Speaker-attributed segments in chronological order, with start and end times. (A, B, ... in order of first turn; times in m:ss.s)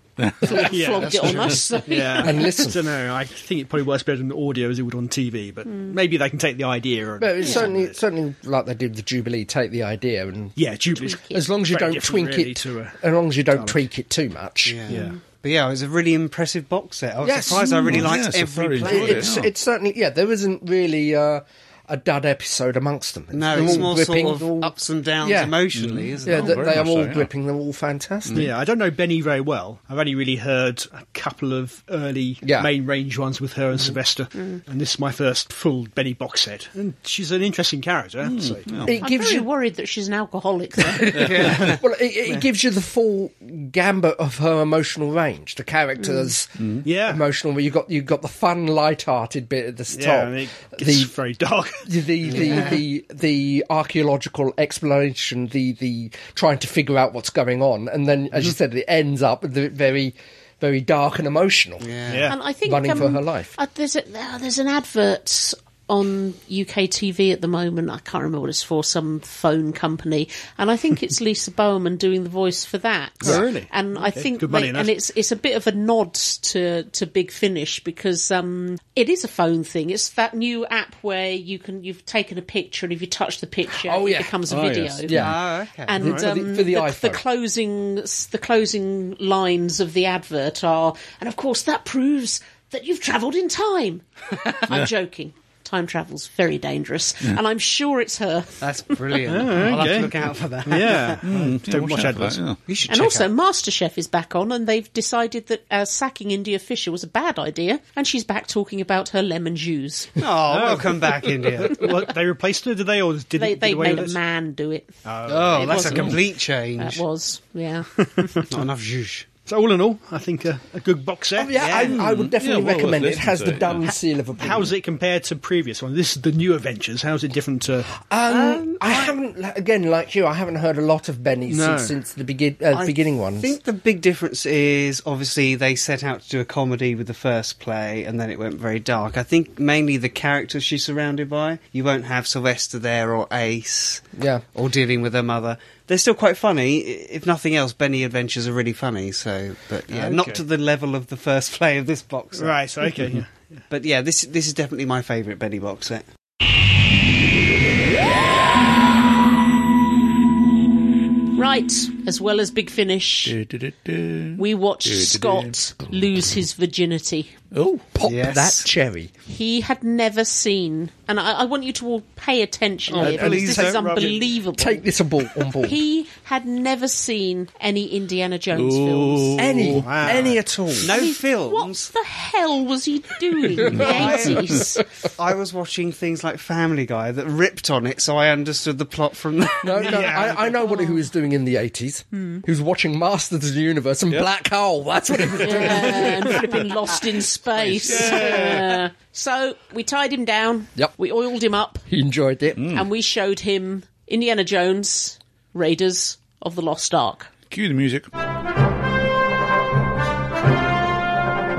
0:00.3-0:02.4 A
0:00.6-0:08.0 B
0:01.0-0:01.8 C
0:02.2-0:02.9 D
0:05.7-0:06.0 A
0:07.2-0:10.6 D
0:07.4-0:07.7 A
0:10.6-0:13.0 B
0:11.0-0:11.4 A
0:11.1-0:14.8 D
0:13.5-0:13.8 B
0:14.6-0:19.5 C
0:14.9-0:15.2 B
0:17.2-0:18.2 D
0:17.8-0:19.5 E
0:18.8-0:25.6 D
0:23.3-0:26.8 C
0:23.6-0:23.9 B
0:25.8-0:27.3 E
0:26.2-0:28.5 D
0:28.3-0:38.9 B
0:32.4-0:32.7 D
0:38.2-0:39.0 E
0:38.8-0:39.5 D
0:39.0-0:41.4 A
0:41.0-0:51.1 D
0:41.1-0:41.8 C
0:46.0-0:46.3 A
0:46.8-0:47.2 B
0:49.9-0:52.7 B
0:51.9-1:01.9 D
0:52.3-0:52.8 C
1:01.8-1:02.3 C
1:02.1-1:02.4 B
1:02.3-1:25.1 A
1:02.6-1:03.5 D
1:13.2-1:15.0 B
1:23.7-1:24.4 D
1:24.5-1:25.3 E
1:25.1-1:25.4 D
1:25.1-1:25.9 C
1:25.9-1:38.6 A
1:26.0-1:27.2 D
1:26.0-1:26.3 B
1:38.6-1:41.2 C
1:39.2-1:40.1 B
1:40.6-1:42.4 B
1:41.2-1:42.6 E
1:42.7-1:43.3 C
1:42.9-1:50.2 A
1:50.2-1:51.9 C
1:50.5-1:54.2 B
1:53.4-1:54.9 A
1:55.0-1:56.2 B
1:55.3-1:57.0 C
1:55.6-1:56.2 A
1:56.8-1:58.5 A
1:58.0-1:58.5 B
1:58.5-1:59.3 C
1:59.5-2:01.8 B
2:01.4-2:04.7 D
2:01.6-2:04.0 E
2:04.4-2:07.9 B
2:08.0-2:13.6 D
2:08.3-2:09.2 C
2:11.5-2:11.9 B
2:12.7-2:32.6 C
2:24.2-2:24.4 D
2:29.9-2:30.4 B
2:32.4-2:33.6 B
2:33.7-2:36.0 C
2:41.4-2:43.3 A
2:43.2-2:45.5 E
2:44.4-2:47.3 A
2:47.5-2:47.9 E
2:47.9-2:49.1 D
2:48.0-2:48.7 C
2:49.3-2:54.8 A
2:53.0-2:54.2 C
2:53.0-2:53.7 D
2:54.6-2:55.8 D
2:55.6-2:59.6 A
2:58.6-3:00.3 E
2:59.4-3:00.9 D
2:59.8-3:00.4 B
3:00.8-3:01.9 C
3:00.9-3:04.8 A
3:03.6-3:04.8 D
3:03.7-3:04.3 E
3:03.9-3:04.2 C
3:05.2-3:10.0 C
3:09.6-3:16.5 D
3:09.8-3:10.6 B
3:12.1-3:12.4 A
3:15.4-3:21.8 A
3:15.4-3:16.2 E
3:17.6-3:18.8 E
3:21.9-3:22.8 D
3:22.6-3:22.9 E
3:22.7-3:27.3 A
3:27.5-3:28.1 E